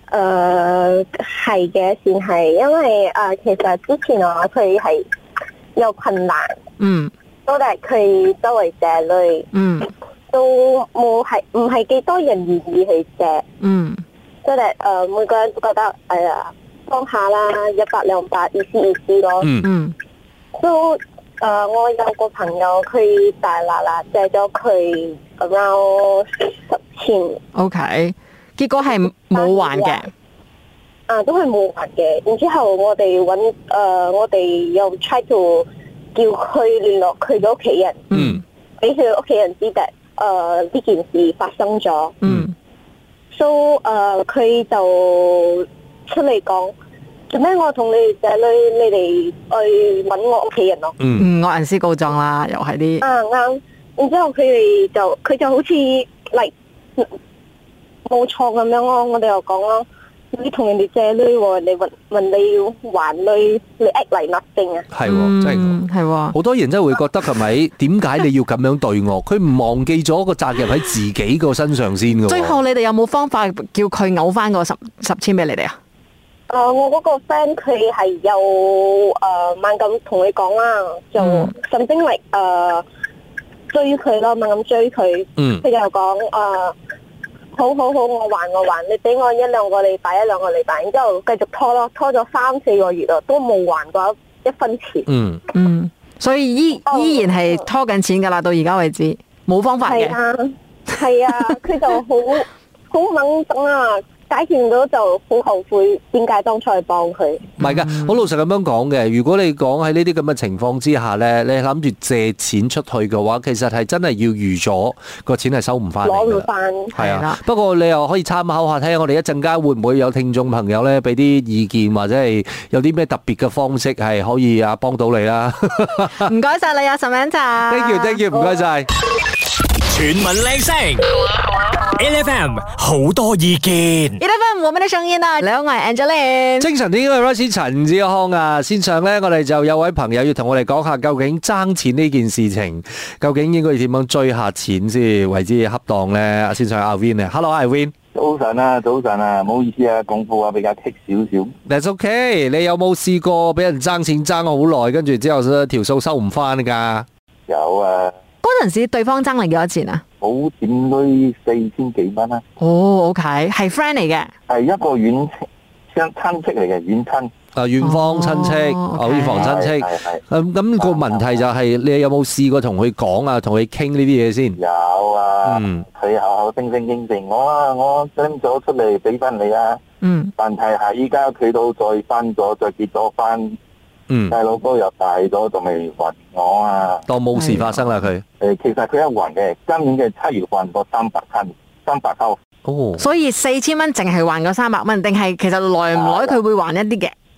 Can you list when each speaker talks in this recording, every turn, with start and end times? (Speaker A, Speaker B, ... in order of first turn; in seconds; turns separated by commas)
Speaker A: 0.1-5.1, Speaker A: 5.8-6.6, Speaker B: 6.8-7.1, Speaker A: 7.5-9.5, Speaker B: 9.5-9.9, Speaker A: 10.3-13.4, Speaker B: 13.6-14.0, Speaker A: 14.4-19.5, Speaker C: 19.4-19.7, Speaker B: 19.6-19.9, Speaker A: 20.5-27.4, Speaker B: 27.6-30.1, Speaker A: 29.3-30.0, Speaker A: 31.1-38.1, Speaker B: 38.1-38.4, Speaker C: 38.1-38.4, Speaker A: 38.8-42.2, Speaker B: 42.2-42.5, Speaker A: 43.3-46.7, Speaker A: 47.3-51.0, Speaker C: 51.0-51.2, Speaker B: 51.2-53.0, Speaker A: 53.0-57.1, Speaker A: 58.1-64.9, Speaker C: 64.9-65.8, Speaker B: 65.1-66.3, Speaker C: 66.3-72.6, Speaker B: 72.3-75.8, Speaker A: 76.5-82.8, Speaker B: 81.2-81.5, Speaker A: 83.7-86.8, Speaker C: 85.4-85.7, Speaker A: 87.5-95.1, Speaker C: 95.1-95.4, Speaker B: 95.5-100.2, Speaker A: 96.9-97.5, Speaker A: 99.8-107.5, Speaker B: 107.6-108.1, Speaker C: 107.6-126.3, Speaker A: 116.0-116.9, Speaker B: 116.9-117.4, Speaker B: 126.2-128.2, Speaker C: 127.7-128.9, Speaker D: 129.9-131.1, Speaker D: 131.9-134.2, Speaker B: 134.2-136.7, Speaker C: 136.6-147.9, Speaker E: 148.2-151.5, Speaker C: 151.7-157.1, Speaker E: 157.5-158.2, Speaker B: 158.4-160.0, Speaker E: 160.2-162.4, Speaker B: 162.6-164.3, Speaker E: 164.5-165.3, Speaker E: 165.9-167.3, Speaker C: 167.6-174.6, Speaker B: 167.8-169.5, Speaker E: 169.4-170.2, Speaker E: 170.8-171.4, Speaker E: 174.6-179.8, Speaker C: 175.4-175.8, Speaker B: 180.0-180.3, Speaker E: 180.4-183.6, Speaker C: 184.1-184.4, Speaker E: 184.3-187.1, Speaker C: 187.1-188.2, Speaker B: 187.4-187.9, Speaker E: 188.4-192.4, Speaker C: 192.7-193.1, Speaker B: 193.0-197.1, Speaker E: 195.9-196.4